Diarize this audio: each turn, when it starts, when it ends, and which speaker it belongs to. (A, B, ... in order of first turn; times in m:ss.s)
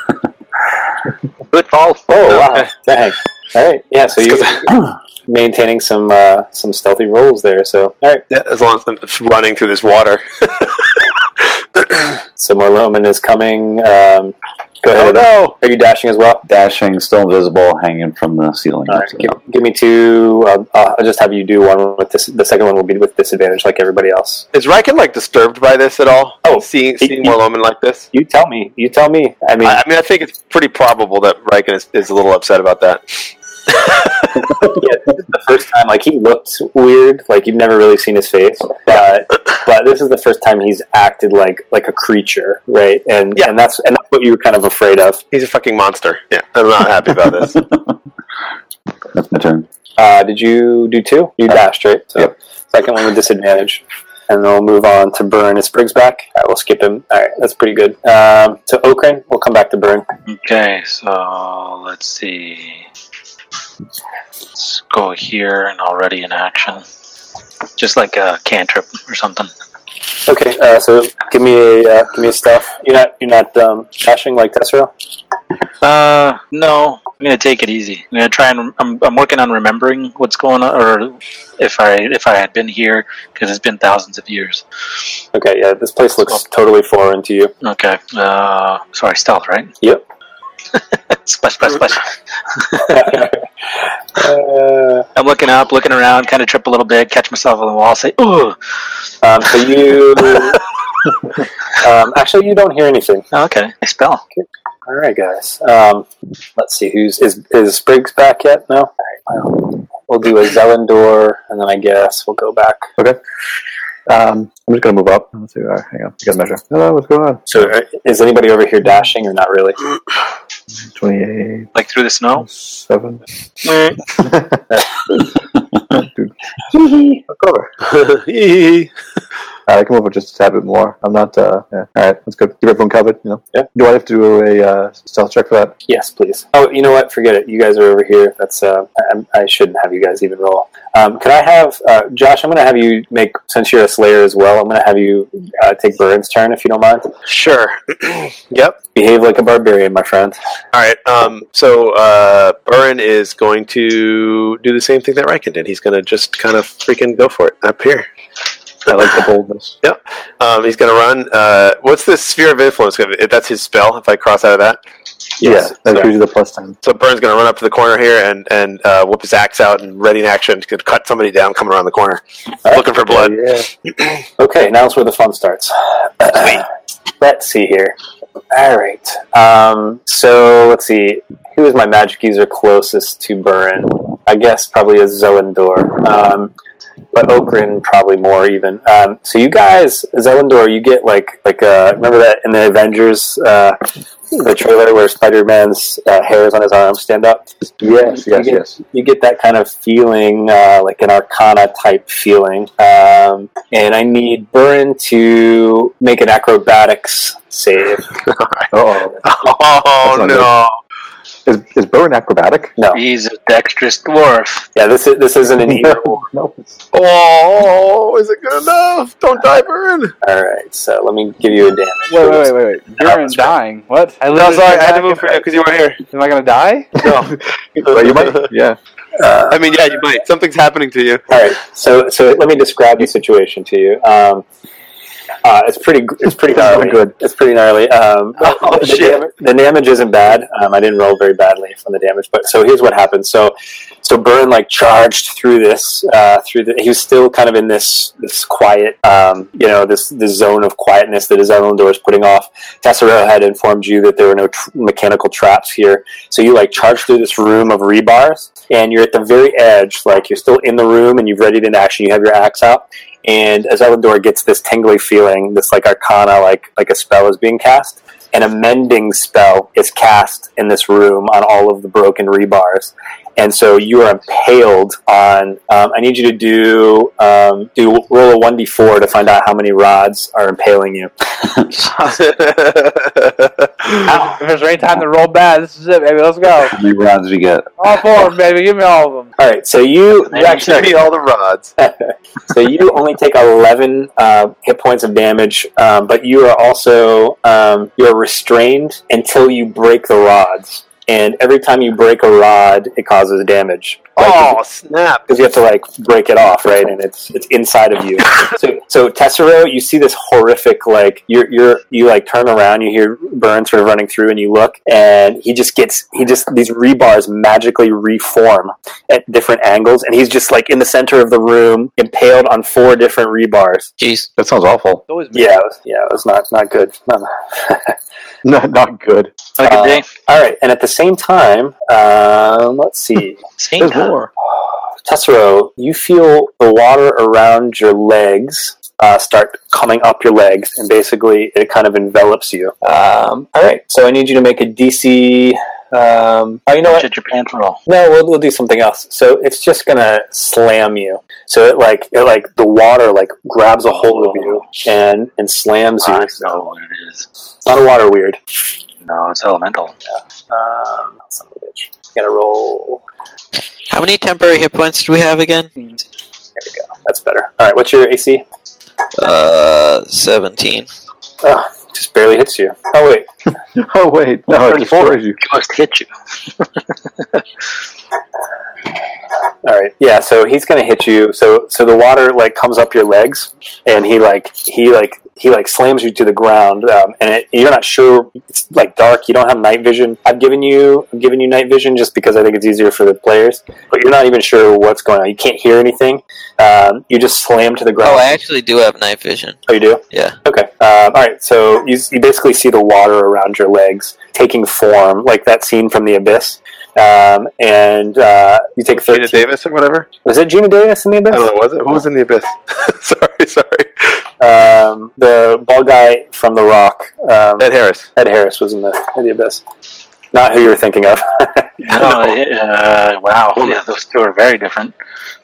0:01.5-0:02.0 A
0:02.1-0:08.2 B
0:02.3-0:02.7 C
0:08.3-0:11.1 C
0:11.7-0:12.2 C
0:12.4-0:16.4 B
0:14.9-0:15.6 C
0:16.4-0:19.3 D
0:18.9-0:24.4 B
0:24.5-0:28.1 C
0:26.4-0:27.4 B
0:28.1-0:29.8 B
0:29.6-0:34.5 C
0:34.7-0:45.2 B
0:45.3-0:47.6 C
0:47.4-0:47.7 D
0:49.1-0:49.7 D
0:50.0-1:00.0 B
1:00.3-1:02.8 A
1:04.6-1:06.8 A
1:07.8-1:09.5 A
1:10.2-1:14.9 B
1:15.8-1:24.6 A
1:25.3-1:27.5 B
1:27.6-1:29.7 A
1:30.7-1:33.2 A
1:32.9-1:33.4 B
1:34.2-1:35.0 B
1:35.2-1:38.6 A
1:39.2-1:40.6 B
1:41.8-1:43.2 B
1:43.3-1:44.2 A
1:44.4-1:52.9 B
1:54.1-1:57.7 E
1:57.5-1:59.8 B
2:00.9-2:01.7 E
2:01.7-2:02.5 A
2:02.4-2:03.2 E
2:03.6-2:04.0 A
2:04.2-2:04.6 E
2:06.0-2:06.3 E
2:06.7-2:07.2 B
2:07.4-2:07.6 E
2:07.8-2:08.9 C
2:09.7-2:15.8 E
2:15.9-2:27.1 B
2:27.2-2:28.8 C
2:28.8-2:30.4 B
2:30.7-2:38.1 C
2:38.9-2:39.7 E
2:39.8-2:44.8 C
2:45.4-2:46.1 B
2:45.4-2:46.8 E
2:46.8-2:53.4 C
2:52.6-2:53.0 B
2:53.1-2:53.7 E
2:54.4-2:56.6 B
2:56.3-2:56.6 C
2:57.2-2:58.0 B
2:58.5-3:06.5 B
3:07.1-3:13.8 B
3:14.3-3:17.5 B
3:17.8-3:18.8 E
3:18.1-3:28.1 B
3:28.3-3:28.7 C
3:28.7-3:29.2 E
3:29.2-3:30.8 C
3:30.0-3:30.5 E
3:31.4-3:32.7 E
3:32.9-3:34.7 A
3:34.7-3:36.2 B
3:35.6-3:36.8 E
3:36.9-3:40.1 C
3:40.2-3:42.5 B
3:42.1-3:45.4 F
3:43.0-3:43.5 C
3:44.3-3:46.0 C
3:46.1-3:46.9 F
3:47.0-3:48.5 C
3:47.0-3:48.8 E
3:49.2-3:49.6 B
3:49.5-3:51.2 C
3:51.3-3:54.4 B
3:55.4-4:41.1 B
3:56.5-3:57.1 E
3:58.4-3:59.2 C
4:42.0-4:44.0 C
4:44.0-4:46.7 F
4:46.7-4:47.7 D
4:47.8-4:49.3 F
4:49.4-4:51.0 B
4:50.3-4:50.9 A
4:50.5-4:51.7 C
4:51.8-5:04.6 B
5:04.2-5:05.2 C
5:05.3-5:23.9 B
5:24.0-5:24.3 G
5:24.4-5:25.0 E
5:25.1-5:25.6 F
5:25.3-5:27.9 B
5:28.4-5:29.3 E
5:29.6-5:30.0 A
5:29.6-5:33.4 B
5:33.6-5:34.1 A
5:33.8-5:34.3 E
5:35.0-5:47.0 B
5:46.8-5:47.8 A
5:47.9-5:56.6 B
5:54.0-5:54.6 A
5:56.0-5:57.2 A
5:57.6-5:58.4 B
5:59.0-5:59.9 A
6:00.5-6:03.0 B
6:03.9-6:05.7 G
6:06.6-6:08.4 B
6:09.2-6:10.9 G
6:11.4-6:13.3 B
6:13.7-6:15.4 E
6:14.6-6:16.1 A
6:19.6-6:38.4 B
6:38.0-6:39.6 G
6:39.7-6:49.4 B
6:40.1-6:40.4 G
6:49.0-6:50.1 C
6:50.2-6:51.5 B
6:51.3-6:54.2 C
6:54.4-6:59.6 B
6:57.6-6:58.1 C
7:00.3-7:01.7 B
7:01.8-7:04.9 A
7:01.9-7:02.4 C